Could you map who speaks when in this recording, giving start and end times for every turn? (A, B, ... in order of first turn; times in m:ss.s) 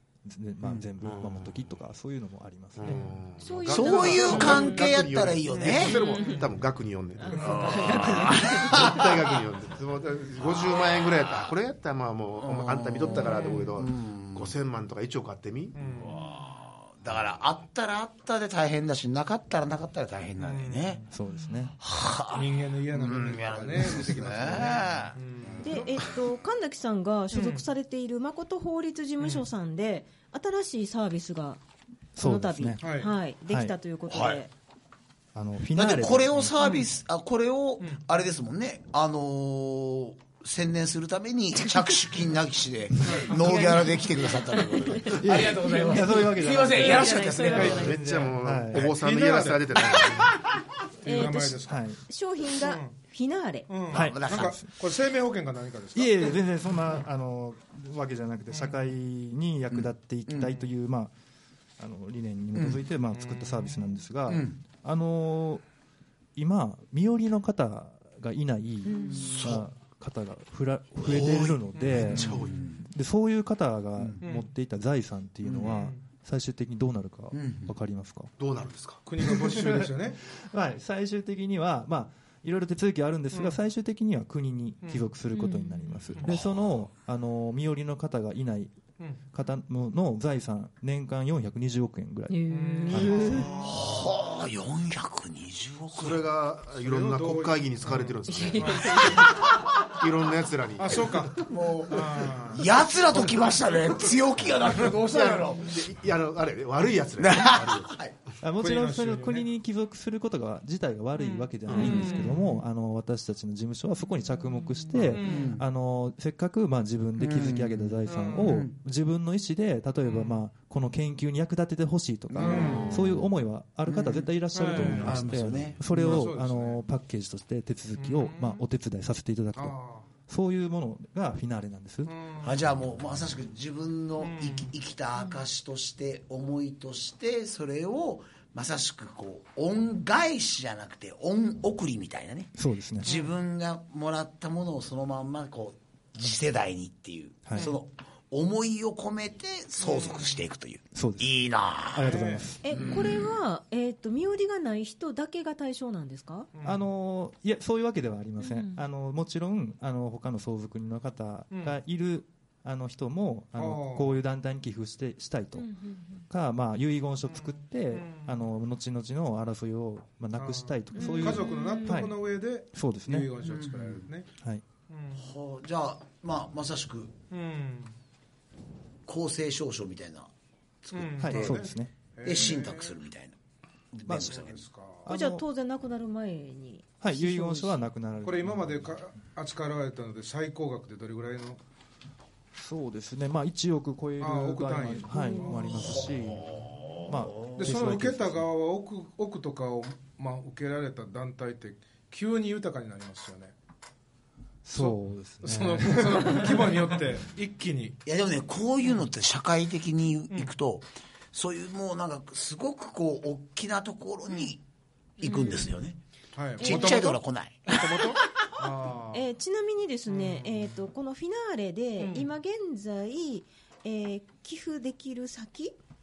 0:00.2-0:03.0 A
0:01.0-0:01.5 B
0:02.8-0:15.8 B
0:03.4-0:05.1 C
0:03.7-0:06.0 D
0:04.3-0:04.6 E
0:05.5-0:06.5 E
0:05.6-0:06.5 C
0:07.2-0:09.2 C
0:07.3-0:07.7 E
0:07.4-0:09.2 D
0:10.4-0:11.5 D
0:12.4-0:14.5 D
0:13.1-0:13.7 C
0:15.7-0:16.2 E
0:15.8-0:21.0 D
0:20.4-0:21.0 E
0:21.1-0:21.7 A
0:21.8-0:26.1 D
0:22.3-0:25.8 E
0:25.6-0:31.6 C
0:27.3-0:27.7 E
0:32.2-0:34.5 C
0:32.2-0:32.8 A
0:32.8-0:33.1 E
0:33.5-0:33.7 A
0:34.1-0:34.4 D
0:35.3-0:36.6 A
0:35.7-0:47.9 D
0:43.0-0:43.3 E
0:43.0-0:44.3 A
0:44.5-0:48.0 C
0:45.1-0:48.9 A
0:47.4-0:47.8 E
0:47.6-0:50.3 B
0:48.7-0:50.2 E
0:51.0-0:51.8 E
0:51.0-0:53.7 C
0:51.6-0:52.0 A
0:52.6-0:52.9 E
0:53.7-0:56.4 E
0:53.9-0:54.6 D
0:53.9-0:54.7 A
0:55.9-1:01.1 A
0:58.5-0:58.8 E
0:59.7-1:00.5 D
1:01.8-1:05.6 A
1:02.5-1:02.8 D
1:03.1-1:03.9 E
1:04.3-1:04.6 D
1:06.4-1:18.3 A
1:08.8-1:09.4 C
1:09.0-1:09.6 D
1:11.0-1:12.9 D
1:11.8-1:12.1 E
1:12.1-1:12.6 B
1:14.0-1:14.2 D
1:14.2-1:14.5 E
1:15.4-1:15.8 D
1:15.6-1:16.0 E
1:17.3-1:17.7 D
1:18.4-1:19.0 B
1:19.0-1:20.2 E
1:19.4-1:28.8 A
1:24.8-1:25.1 E
1:25.3-1:26.1 C
1:26.2-1:26.7 D
1:29.3-1:33.5 A
1:32.3-1:33.5 C
1:32.5-1:34.0 E
1:33.5-1:36.2 D
1:35.9-1:41.4 B
1:36.8-1:39.2 E
1:38.3-1:39.4 C
1:40.8-1:42.7 E
1:41.4-1:45.9 D
1:45.0-1:48.0 B
1:47.2-1:48.1 D
1:48.4-2:12.1 A
1:48.6-1:49.5 E
1:51.2-1:51.5 C
1:51.7-1:52.6 E
1:51.7-1:52.2 D
1:55.0-1:55.6 E
1:55.1-1:55.6 D
1:57.2-1:58.7 D
1:58.0-1:58.6 E
2:00.0-2:00.4 E
2:02.3-2:03.2 D
2:02.4-2:03.1 E
2:02.5-2:03.0 C
2:03.9-2:06.3 D
2:04.5-2:05.3 E
2:05.9-2:06.8 E
2:08.0-2:08.6 E
2:09.6-2:10.1 E
2:12.1-2:12.6 E
2:12.4-2:33.3 D
2:14.2-2:14.7 E
2:22.6-2:23.1 A
2:23.0-2:23.3 E
2:29.8-2:30.4 E
2:30.9-2:31.3 A
2:31.8-2:32.6 A
2:32.0-2:32.5 E
2:32.6-2:36.5 C
2:36.5-2:36.8 E
2:36.6-2:45.7 A
2:38.4-2:38.8 C
2:41.5-2:41.8 E
2:43.6-2:44.1 E
2:45.6-2:46.2 C
2:46.3-2:53.3 A
2:47.3-2:48.3 E
2:50.4-2:54.3 E
2:51.0-2:52.0 C
2:53.4-2:54.1 D
2:54.9-2:55.2 E
2:55.1-2:57.1 D
2:57.3-2:57.9 E
2:59.1-3:00.3 D
3:00.8-3:01.6 D
3:00.9-3:02.9 E
3:01.2-3:01.9 A
3:02.2-3:03.4 D
3:03.9-3:04.6 D
3:04.1-3:04.4 A
3:04.2-3:05.0 E
3:05.0-3:05.4 A
3:05.1-3:07.8 C
3:07.0-3:08.9 A
3:08.2-3:11.6 E
3:12.5-3:18.5 A
3:14.2-3:15.9 E
3:15.1-3:15.8 C
3:15.8-3:17.7 D
3:17.5-3:23.5 E
3:24.6-3:26.6 A
3:24.8-3:28.0 E
3:28.0-3:34.6 D
3:35.2-3:36.0 D
3:35.2-3:35.8 C
3:36.3-3:39.2 E
3:36.6-3:37.9 D
3:36.6-3:37.1 C
3:37.7-3:38.1 C
3:39.1-3:45.8 C
3:40.1-3:40.5 E
3:42.0-3:42.3 E